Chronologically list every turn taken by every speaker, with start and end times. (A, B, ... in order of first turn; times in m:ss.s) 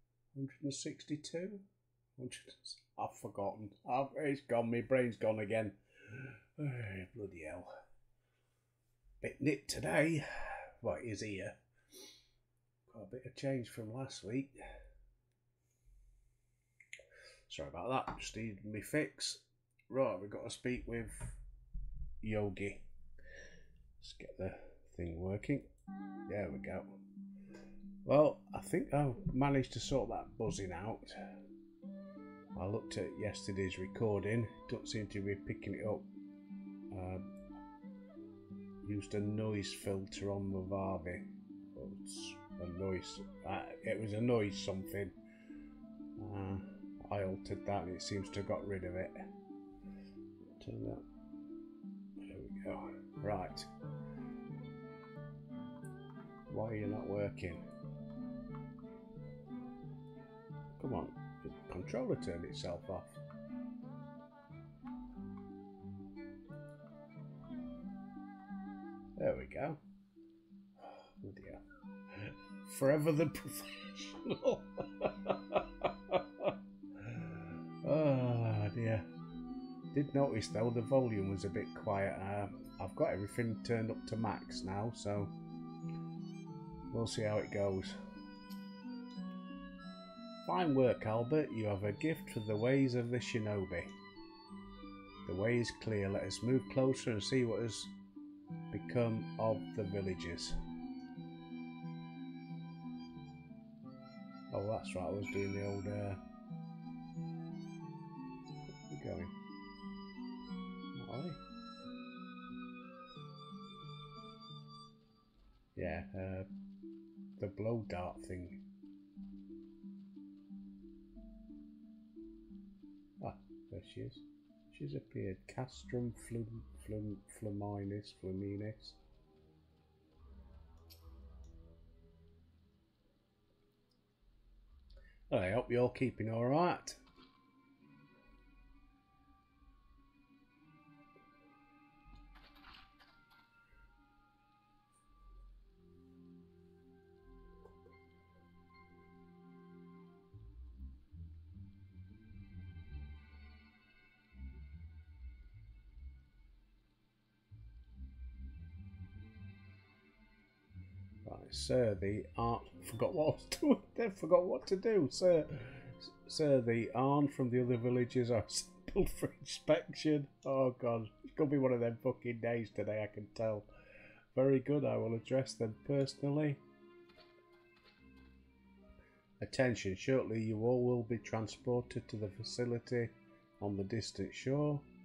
0:00.3-0:01.6 A
0:02.2-0:07.7 A
0:09.2-0:11.6 A
0:12.9-0:14.6 A
0:17.5-0:21.4 A
0:22.2-0:22.9 A
0:24.0-0:25.7 A
0:26.3-0:27.0 A
0:28.0-0:31.4 A
0:32.6-0:36.1 A
0:36.9-0:37.3 A
0:38.8-0:45.2 A
0:46.2-0:49.2 A
0:50.6-0:51.0 A
0:52.2-0:53.7 A
0:56.5-0:57.6 A
1:00.8-1:03.2 A
1:09.2-1:09.8 A
1:10.8-1:19.1 A
1:19.9-1:25.3 A
1:26.9-1:28.0 A
1:30.4-1:34.0 A
1:35.2-1:37.9 A
1:38.7-1:40.6 A
1:44.5-1:46.2 A
1:48.9-1:49.3 A
1:50.9-1:51.4 A
1:55.8-1:56.5 A
1:57.4-1:58.6 A
2:03.2-2:09.0 A
2:15.3-2:17.0 A
2:41.2-2:53.7 A
2:54.3-2:56.6 A
2:59.4-3:04.9 A